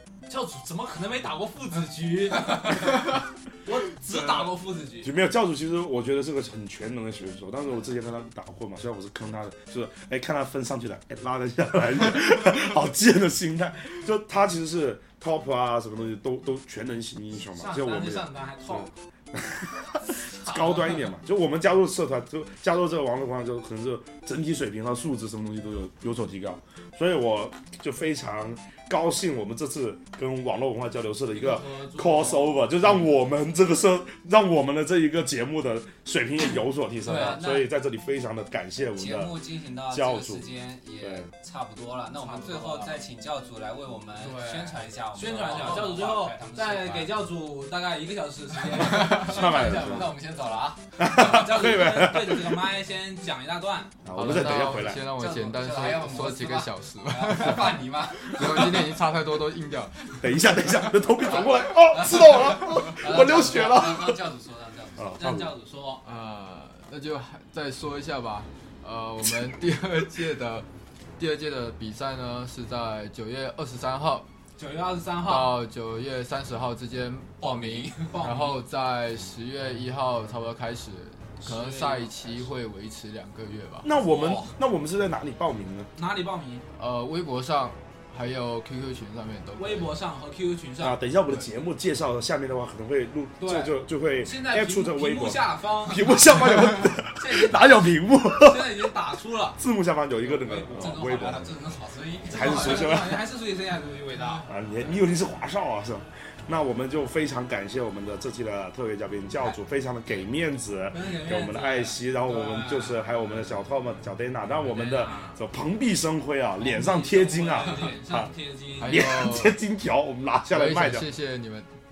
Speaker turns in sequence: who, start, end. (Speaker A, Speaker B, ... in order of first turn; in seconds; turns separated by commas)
Speaker A: 0.3-5.1, Speaker B: 4.1-4.5, Speaker B: 5.0-40.4, Speaker A: 17.5-18.9, Speaker A: 20.4-20.9, Speaker A: 31.3-32.7, Speaker C: 37.0-37.7, Speaker A: 37.0-37.5, Speaker C: 39.0-47.2, Speaker B: 41.0-41.3, Speaker A: 42.2-43.0, Speaker A: 44.1-50.2, Speaker B: 49.0-50.1, Speaker C: 49.3-50.8, Speaker B: 51.0-52.6, Speaker A: 51.0-54.0, Speaker B: 54.0-55.1, Speaker D: 54.1-60.5, Speaker C: 55.0-58.9, Speaker B: 60.2-64.2, Speaker C: 61.2-65.2, Speaker B: 65.0-65.5, Speaker A: 65.2-66.0, Speaker D: 66.0-74.3, Speaker A: 74.6-75.6, Speaker D: 75.2-83.9, Speaker C: 77.4-78.2, Speaker A: 77.9-78.6, Speaker A: 81.4-82.5, Speaker B: 83.8-85.9, Speaker C: 84.0-84.5, Speaker A: 86.0-86.6, Speaker D: 86.8-89.9, Speaker A: 89.6-91.0, Speaker B: 90.8-98.8, Speaker A: 93.4-99.6, Speaker B: 99.6-101.5, Speaker A: 100.2-101.5, Speaker C: 100.8-103.0, Speaker A: 102.3-104.5, Speaker B: 102.3-103.3, Speaker B: 104.4-121.1, Speaker A: 110.9-113.7, Speaker A: 114.4-115.4, Speaker A: 116.6-119.0, Speaker D: 118.8-119.6, Speaker D: 120.5-121.7